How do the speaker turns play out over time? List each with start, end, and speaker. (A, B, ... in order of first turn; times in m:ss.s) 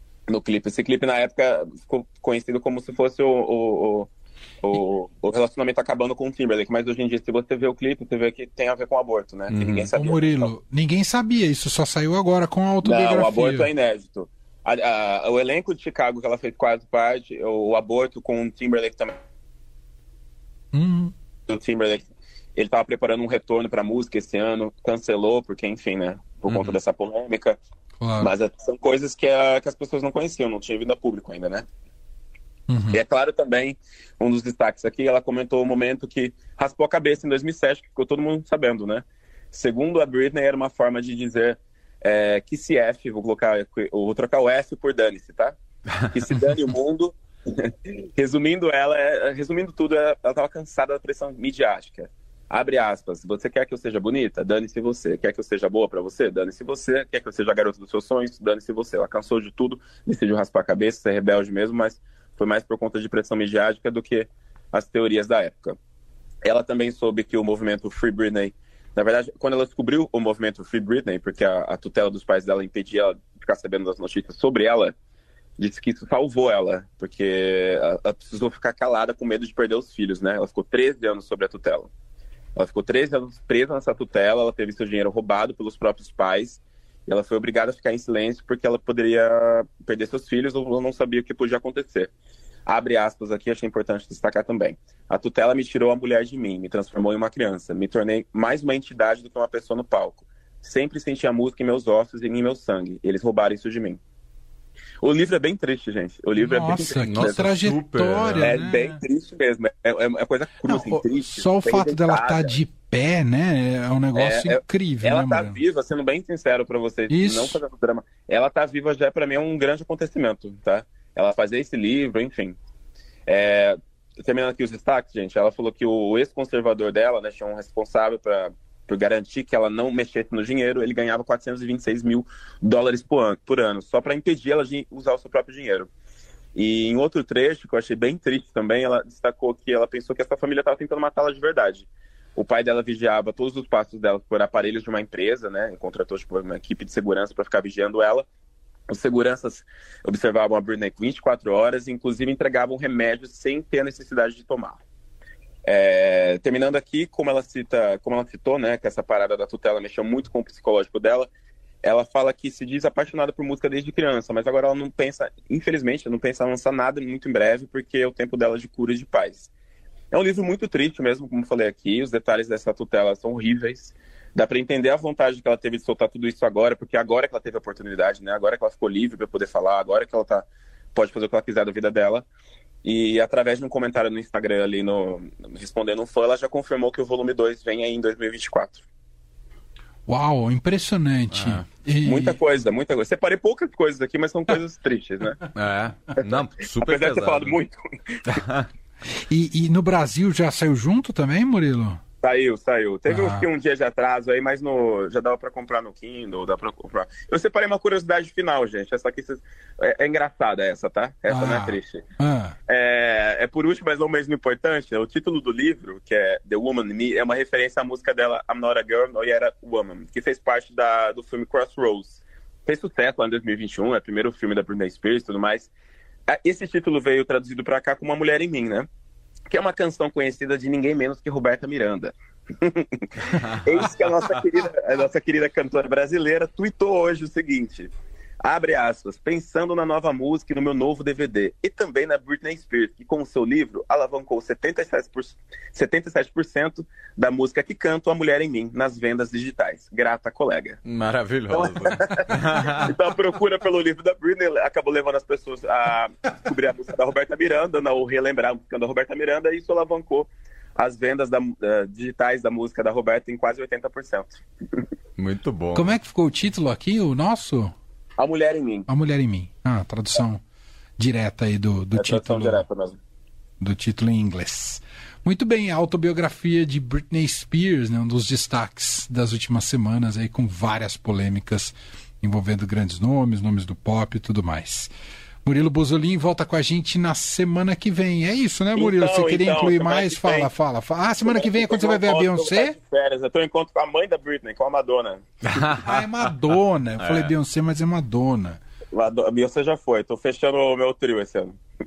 0:00.3-0:04.1 A
0:04.6-0:10.5 A
0:09.5-0:09.9 B
0:09.9-0:13.7 C
0:12.8-0:19.2 A
0:20.7-0:21.1 C
0:21.5-0:27.6 A
0:26.5-0:26.8 B
0:28.0-0:28.3 C
0:28.2-0:31.6 A
0:32.7-0:33.0 C
0:32.9-0:45.6 A
0:46.1-1:05.8 A
1:06.4-1:14.9 A
1:15.6-1:21.9 A
1:22.6-1:32.1 A
1:32.7-1:44.0 A
1:45.0-1:47.5 A
1:46.4-1:49.0 C
1:47.0-1:48.6 B
1:48.4-1:52.6 A
1:50.6-1:55.6 C
1:54.2-2:02.6 A
1:57.1-1:57.6 C
2:03.3-2:15.9 A
2:16.6-2:28.3 A
2:28.9-2:34.8 A
2:35.6-2:41.3 A
2:41.8-2:49.5 A
2:50.1-3:02.3 A
3:02.8-3:08.8 A
3:10.1-3:12.4 C
3:11.3-3:11.6 B
3:12.0-3:15.4 A
3:15.6-3:17.6 B
3:16.8-3:17.8 A
3:18.3-3:18.7 B
3:19.3-3:22.0 C
3:22.2-3:32.0 A
3:23.1-3:23.5 C
3:31.3-3:32.6 C
3:32.7-3:45.7 A
3:46.3-3:48.9 A
3:49.5-4:10.8 A
3:53.2-3:54.3 B
4:10.8-4:12.9 B
4:11.5-4:24.4 A
4:25.2-4:26.0 B
4:25.7-4:27.7 C
4:28.2-4:28.9 A
4:28.9-4:30.4 C
4:31.0-4:32.6 C
4:32.0-4:33.0 A
4:33.6-4:44.9 C
4:45.4-4:52.8 C
4:48.8-4:50.5 A
4:51.2-4:55.2 A
4:55.5-4:57.3 B
4:55.8-4:58.6 C
4:58.9-5:01.6 A